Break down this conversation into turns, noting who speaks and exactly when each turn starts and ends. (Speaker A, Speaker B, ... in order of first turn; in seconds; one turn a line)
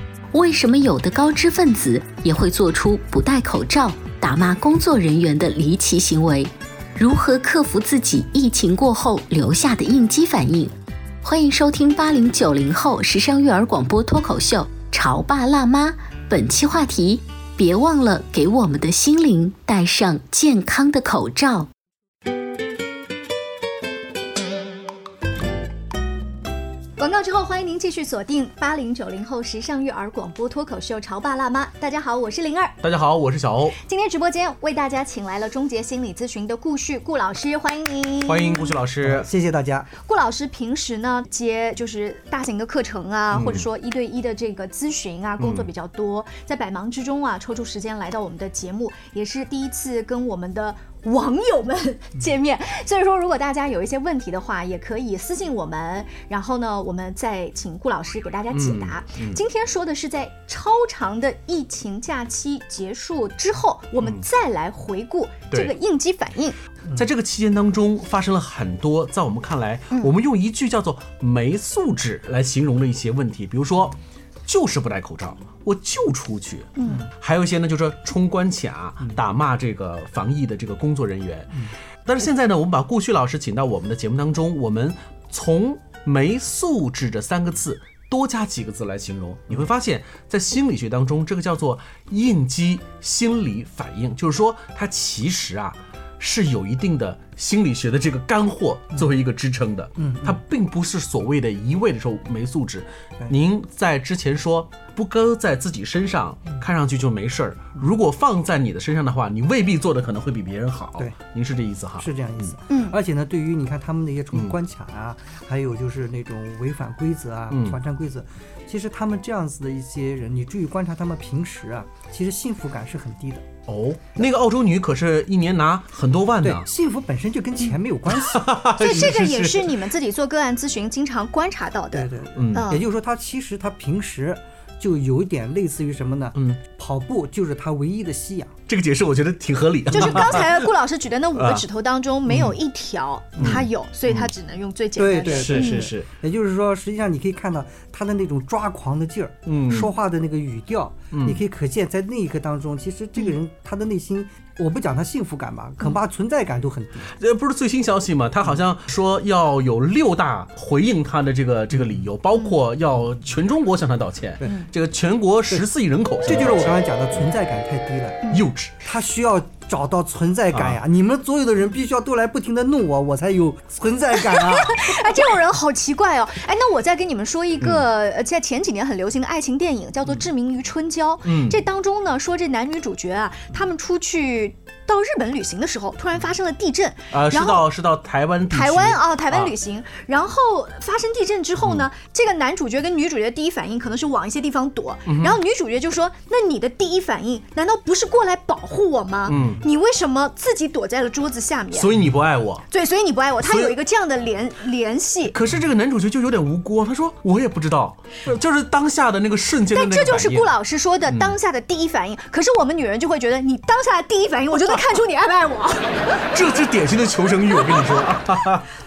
Speaker A: 0.3-10.7
Speaker A: 11.2-21.7
Speaker B: 27.0-32.8
Speaker C: 32.8-33.8
Speaker B: 33.8-38.7
Speaker C: 38.2-39.3
Speaker D: 39.0-39.9
Speaker B: 40.0-66.5
Speaker C: 43.3-43.6
Speaker C: 45.4-45.7
Speaker C: 58.5-59.4
Speaker C: 66.9-112.5
Speaker B: 76.8-77.0
Speaker D: 100.0-100.4
Speaker D: 112.0-123.5
Speaker B: 112.7-113.0
Speaker C: 117.5-117.8
Speaker C: 123.7-126.7
Speaker D: 126.4-128.6
Speaker C: 128.2-129.8
Speaker B: 128.7-132.8
Speaker D: 131.9-138.5
Speaker C: 132.3-132.6
Speaker C: 138.7-140.7
Speaker B: 139.9-145.9
Speaker C: 141.3-141.6
Speaker C: 142.3-142.5
Speaker C: 143.4-144.3
Speaker D: 145.0-157.1
Speaker C: 145.2-146.1
Speaker C: 149.4-149.9
Speaker C: 151.1-151.4
Speaker C: 157.2-166.8
Speaker D: 166.2-168.3
Speaker C: 168.3-168.7
Speaker D: 168.8-174.9
Speaker C: 170.5-170.8
Speaker B: 174.2-187.6
Speaker C: 181.2-181.6
Speaker C: 187.1-189.5
Speaker B: 188.5-201.9
Speaker C: 191.6-191.9
Speaker C: 195.1-195.4
Speaker C: 199.3-199.6
Speaker C: 201.7-202.7
Speaker B: 202.7-205.3
Speaker C: 203.4-203.8
Speaker C: 205.3-210.5
Speaker B: 209.7-216.0
Speaker C: 211.1-211.3
Speaker C: 216.3-218.7